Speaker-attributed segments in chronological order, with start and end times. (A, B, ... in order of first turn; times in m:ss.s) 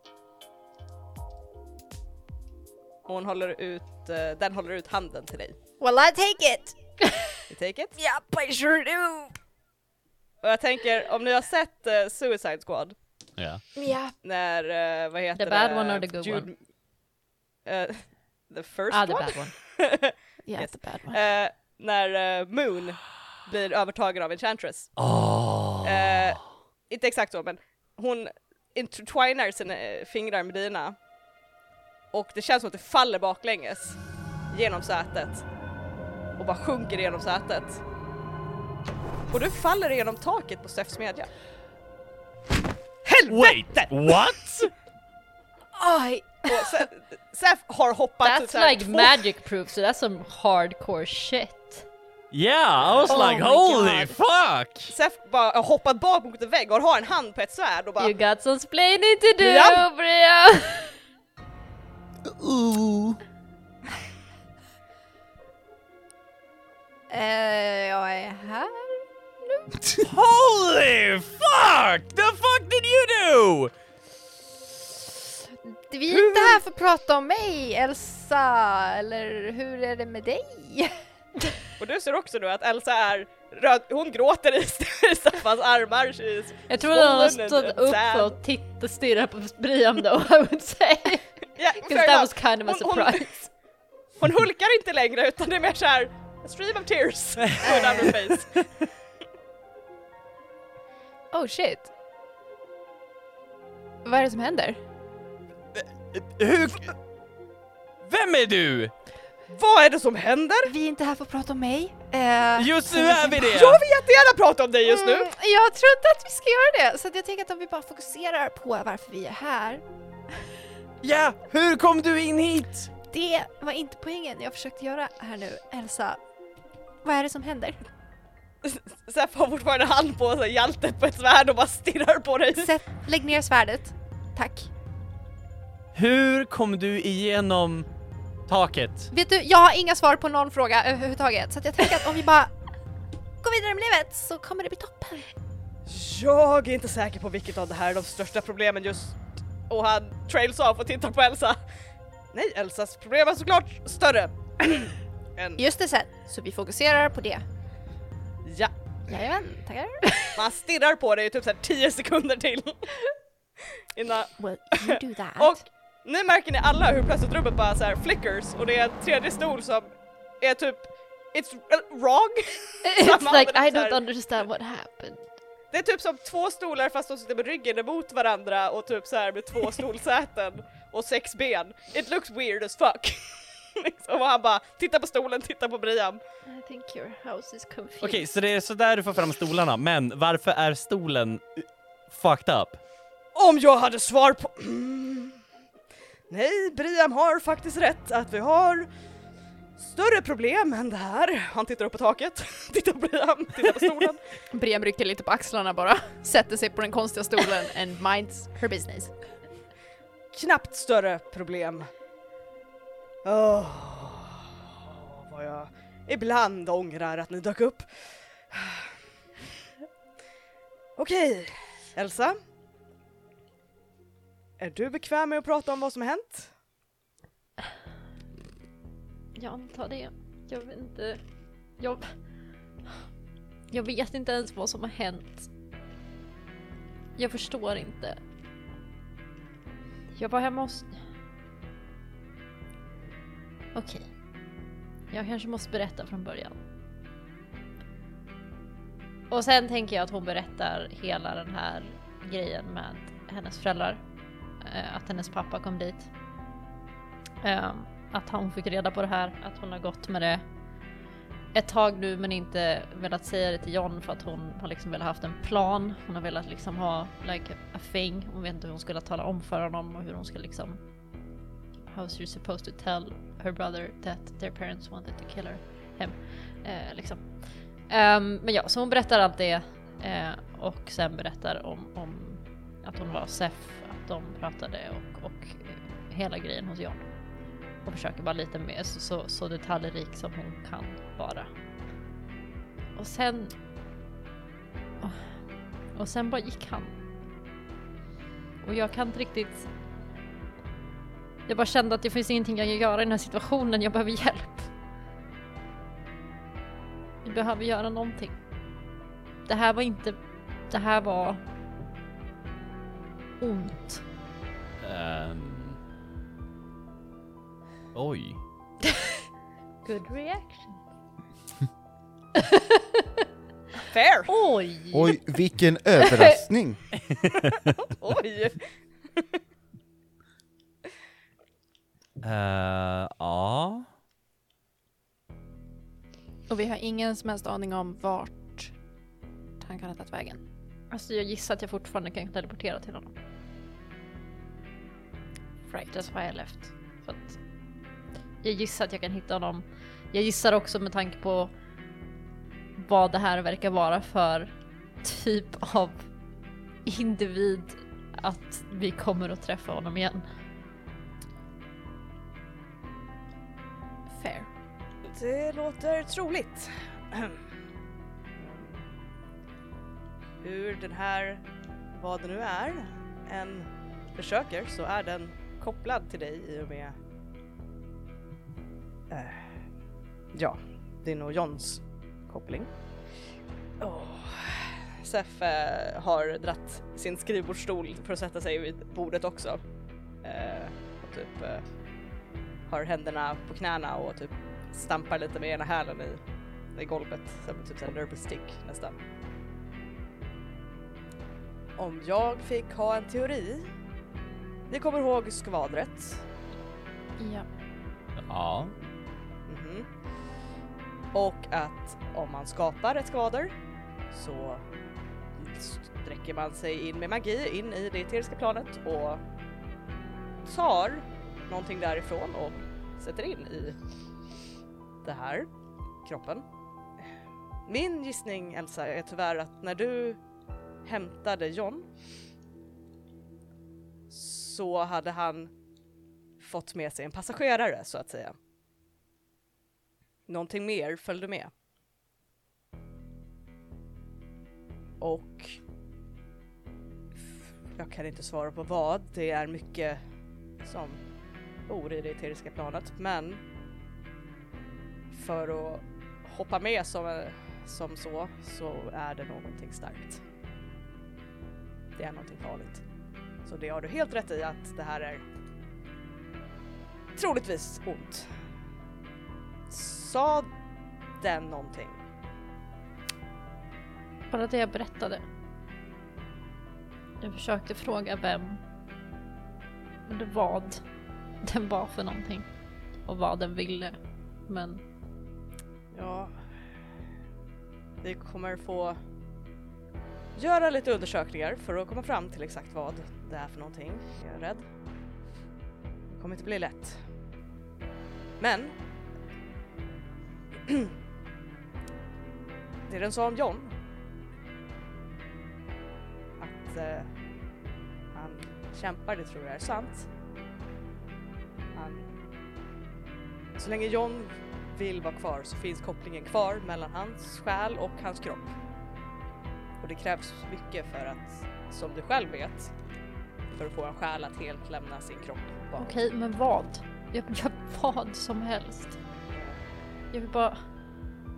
0:03.0-0:05.6 A
0:05.8-0:07.3 B
0:07.5-0:08.0 A
0:08.0-0:09.4 B
0:10.4-0:13.0 A
0:13.4-0:13.6 C
0:13.8-0:14.1 B
0:14.2-0:16.6 A
0:15.3-0:16.5 D
0:17.6-0:24.9 A
0:18.9-0:19.5 D
0:20.4-0:21.2 B
0:25.0-0:26.4 C
0:25.8-0:31.0 A
0:32.1-0:35.4 A
0:36.4-0:37.8 A
0:39.3-0:41.3 A
0:43.0-0:44.3 A
0:43.3-0:44.7 C
0:45.8-0:46.8 B
0:46.4-0:49.2 A
0:48.2-0:51.8 D
0:52.3-0:54.9 C
0:53.1-0:54.1 B
0:54.9-0:58.1 A
0:58.0-1:00.9 D
0:59.4-0:59.8 A
1:02.2-1:03.2 E
1:07.1-1:09.7 B
1:09.8-1:10.1 E
1:10.1-1:13.7 C
1:15.9-1:20.9 B
1:16.2-1:16.6 A
1:21.8-1:28.4 A
1:26.7-1:33.5 D
1:31.5-1:33.5 A
1:34.2-1:38.6 A
1:37.6-1:38.1 B
1:38.1-1:38.6 C
1:41.3-1:41.9 B
1:44.0-1:44.8 B
1:45.7-1:47.0 C
1:48.0-1:48.9 C
1:49.5-1:50.7 A
1:50.7-1:53.5 B
1:52.6-1:53.8 C
1:53.4-1:55.3 A
1:54.8-1:59.8 B
2:01.0-2:02.9 C
2:03.1-2:06.2 B
2:07.0-2:07.8 B
2:08.6-2:12.7 A
2:12.6-2:14.7 B
2:15.9-2:17.9 C
2:18.5-2:19.1 C
2:19.1-2:22.5 B
2:23.4-2:25.3 B
2:25.8-2:31.6 A
2:32.3-2:35.6 A
2:35.6-2:37.4 B
2:38.4-2:38.7 A
2:39.1-2:40.3 B
2:40.4-2:42.9 A
2:43.9-2:54.0 A
2:44.4-2:45.6 B
2:52.8-2:55.2 D
2:55.7-3:06.2 A
3:06.4-3:08.2 D
3:08.0-3:12.8 C
3:13.3-3:15.4 A
3:16.3-3:18.9 A
3:19.8-3:24.2 A
3:24.5-3:29.1 B
3:30.3-3:31.9 A
3:33.2-3:38.9 A
3:41.0-3:42.4 A
3:44.6-3:46.5 A
3:49.4-3:51.2 D
3:51.8-3:52.2 D
3:53.7-3:55.5 D
3:57.2-3:58.2 D
4:00.2-4:01.0 D
4:03.7-4:04.1 D
4:05.1-4:06.6 D
4:09.3-4:14.0 D
4:14.6-4:16.1 D
4:17.4-4:20.4 D
4:21.5-4:30.8 D
4:31.9-4:47.1 D
4:47.8-4:51.5 D
4:53.0-4:53.5 D
4:55.0-4:55.4 D
4:55.9-4:56.9 D
4:58.6-4:59.7 D
5:01.5-5:04.7 D
5:07.2-5:08.4 D
5:09.4-5:10.2 D
5:10.7-5:11.4 D
5:13.4-5:14.0 D
5:14.8-5:15.8 C
5:17.9-5:18.4 C
5:19.8-5:20.8 D
5:22.5-5:22.8 D
5:23.9-5:24.3 A
5:24.3-5:25.2 D
5:24.9-5:26.9 E
5:26.0-5:26.4 D
5:27.8-5:29.4 A
5:32.2-5:33.9 C
5:36.5-5:38.7 B
5:39.6-5:40.4 B
5:40.9-5:43.1 D
5:45.7-5:46.0 B
5:45.9-5:47.4 D
5:48.4-5:51.5 D
5:52.8-5:56.0 D
5:56.8-6:00.2 D
6:04.2-6:04.5 B
6:05.1-6:07.4 A
6:08.4-6:08.9 A
6:10.4-6:17.0 A
6:19.1-6:19.6 A
6:20.3-6:22.7 A
6:23.8-6:29.6 A
6:30.2-6:31.6 A
6:32.7-6:36.2 A
6:36.7-6:39.0 A
6:41.8-6:43.7 A
6:44.7-6:46.2 A
6:47.2-6:47.4 B
6:48.2-6:48.7 C
6:49.5-6:49.9 A
6:51.1-6:53.5 A
6:54.1-6:54.6 A
6:55.4-6:59.2 A
7:00.4-7:03.8 A
7:05.0-7:05.5 A
7:06.0-7:06.4 A
7:07.7-7:10.2 A
7:10.8-7:11.9 A
7:14.1-7:15.5 A
7:16.4-7:18.4 A
7:20.3-7:21.5 A
7:25.0-7:25.6 A
7:27.7-7:30.0 A
7:30.6-7:31.0 A
7:31.7-7:33.4 A
7:35.1-7:40.2 A
7:42.0-7:42.8 A
7:43.4-7:45.2 A
7:47.2-7:48.3 A
7:49.7-7:50.5 A
7:51.2-7:52.0 A
7:54.3-7:55.2 D
7:57.2-7:58.6 D
8:00.1-8:00.8 D
8:01.4-8:02.5 D
8:03.0-8:04.0 D
8:04.5-8:04.8 D
8:05.9-8:06.4 A
8:08.0-8:09.0 A
8:10.4-8:14.6 A
8:16.1-8:17.0 A
8:18.4-8:18.8 A
8:20.7-8:20.9 A
8:22.9-8:23.7 A
8:26.4-8:27.1 A
8:28.1-8:30.1 A
8:31.7-8:32.0 A
8:33.6-8:38.5 A
8:39.8-8:42.7 A
8:43.5-8:46.0 A
8:45.8-8:49.0 D
8:49.3-8:49.6 A
8:50.1-8:50.6 D